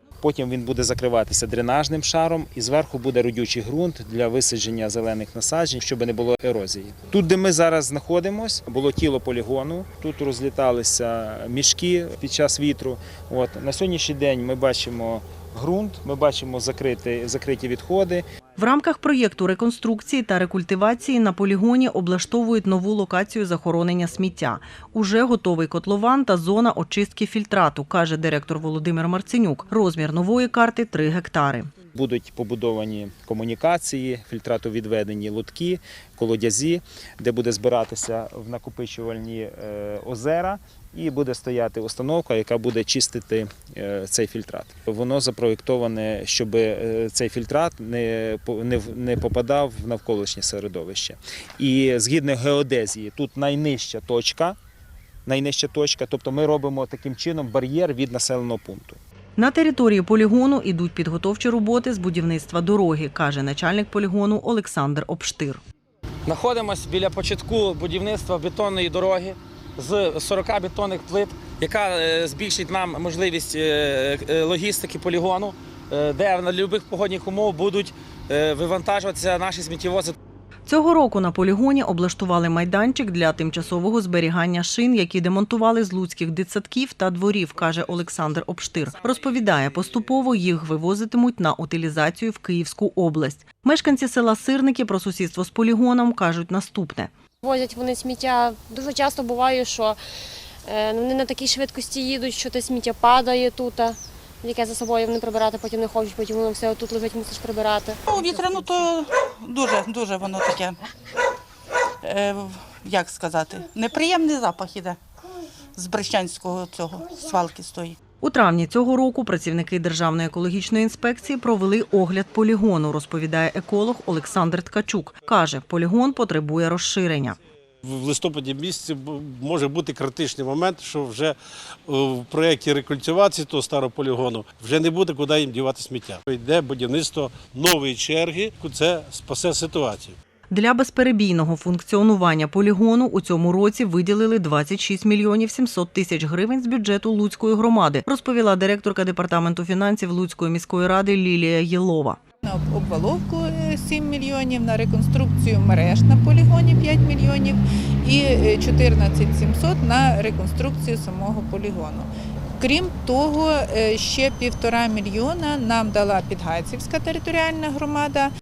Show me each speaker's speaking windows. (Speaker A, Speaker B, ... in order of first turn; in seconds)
Speaker A: 0.2-18.2, 31.9-54.6, 55.3-59.0
Speaker B: 18.6-31.7, 59.4-65.6, 80.7-97.1, 118.2-127.4, 140.5-152.2
Speaker C: 66.3-80.2
Speaker D: 97.4-100.0, 100.7-108.0
Speaker E: 108.1-110.8, 112.0-115.0, 115.7-118.0
Speaker F: 127.8-131.4, 131.9-140.2
Speaker G: 152.4-168.3